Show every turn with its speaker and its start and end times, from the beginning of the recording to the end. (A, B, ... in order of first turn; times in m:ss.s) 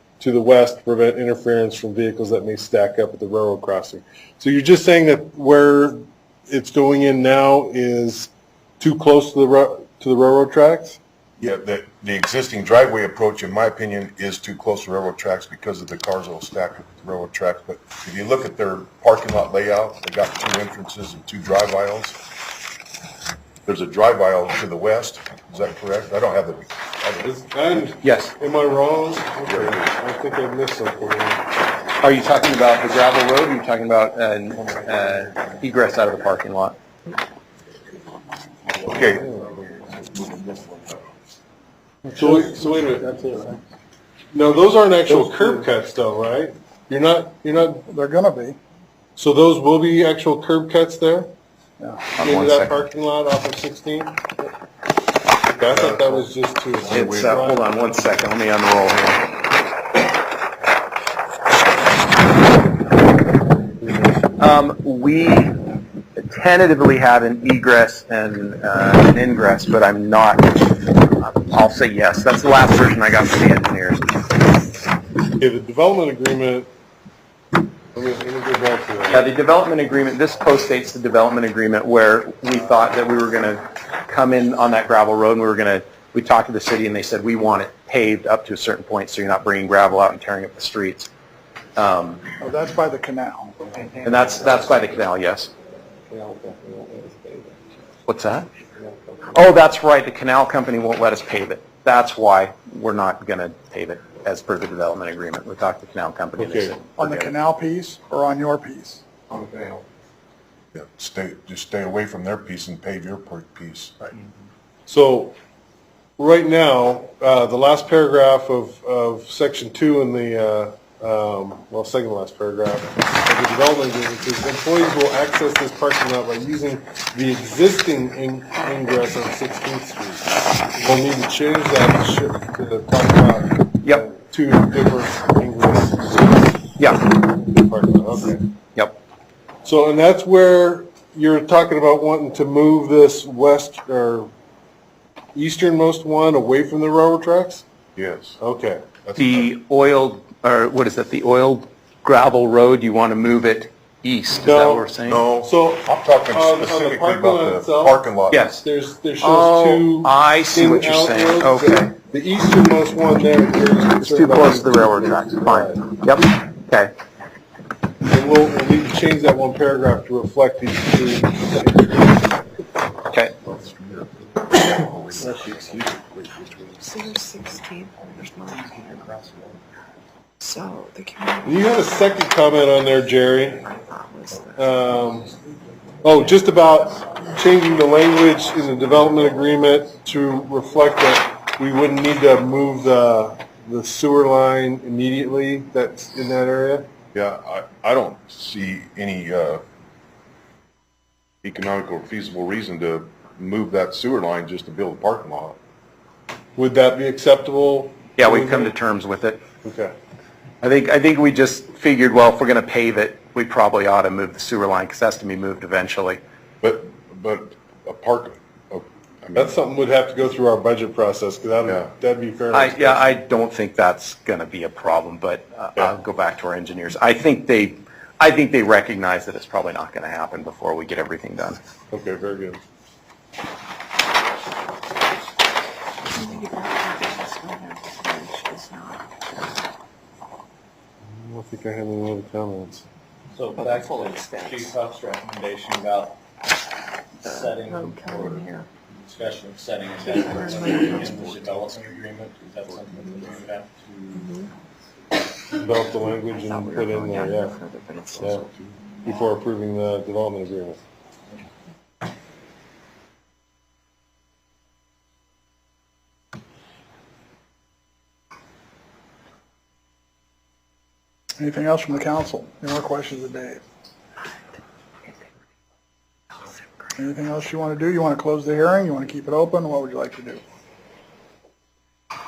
0:00.2-0:11.0 A
0:11.4-0:22.2 B
0:23.6-0:27.3 B
0:27.2-0:31.4 A
0:28.0-0:28.3 C
0:29.4-0:29.9 B
0:32.0-0:36.8 C
0:38.8-0:41.0 B
0:42.1-0:43.5 A
0:44.3-0:47.9 A
0:45.2-0:45.4 D
0:47.9-0:48.6 D
0:49.2-0:51.3 A
0:51.8-0:52.0 D
0:52.1-0:52.8 C
0:52.2-0:54.5 A
0:55.5-0:57.7 A
0:55.7-0:56.2 B
0:56.8-0:57.5 B
0:56.9-0:59.3 C
1:04.4-1:05.5 C
1:06.2-1:14.1 C
1:15.4-1:16.7 A
1:17.9-1:19.2 A
1:19.1-1:31.1 C
1:31.8-1:32.2 C
1:32.4-1:33.5 D
1:34.0-1:35.5 C
1:36.1-1:37.3 A
1:38.1-1:38.5 C
1:39.3-1:47.4 C
1:46.4-1:46.8 A
1:47.0-1:49.0 D
1:50.7-1:53.9 B
1:54.9-1:55.4 A
1:56.2-2:18.4 A
2:16.8-2:17.0 C
2:19.6-2:24.3 A
2:25.3-2:27.6 A
2:28.0-2:28.4 B
2:28.4-2:28.8 A
2:29.0-2:29.4 B
2:29.2-2:35.2 C
2:34.4-2:34.9 A
2:35.0-2:38.5 B
2:35.4-2:38.0 A
2:38.3-2:38.6 C
2:38.6-2:45.8 A
2:39.2-2:41.9 C
2:44.0-2:46.9 C
2:48.1-2:52.4 A
2:53.4-2:56.7 B
2:55.2-2:56.1 E
2:56.8-2:59.2 F
2:58.8-2:59.3 E
3:00.4-3:02.2 F
3:01.4-3:03.7 A
3:03.6-3:04.9 F
3:04.5-3:05.3 A
3:06.0-3:16.9 A
3:17.1-3:19.6 B
3:21.4-3:25.6 B
3:26.6-3:28.8 A
3:28.2-3:29.4 C
3:29.6-3:29.9 A
3:30.6-3:36.2 C
3:36.6-3:39.6 B
3:39.3-3:43.1 A
3:42.5-3:51.6 C
3:51.9-3:52.6 A
3:56.1-3:59.6 F
4:01.0-4:02.8 A
4:03.4-4:06.2 E
4:03.6-4:04.7 C
4:03.6-4:04.6 F
4:07.2-4:08.7 F
4:07.3-4:14.3 E
4:09.6-4:10.0 C
4:10.0-4:11.5 F
4:10.2-4:12.0 B
4:12.6-4:13.5 B
4:13.0-4:13.3 F
4:13.3-4:13.6 C
4:14.1-4:14.5 F
4:15.6-4:17.6 A
4:16.0-4:18.5 F
4:18.2-4:18.4 A
4:18.2-4:18.7 B
4:19.0-4:20.8 A
4:31.4-4:33.6 D
4:37.0-4:40.4 D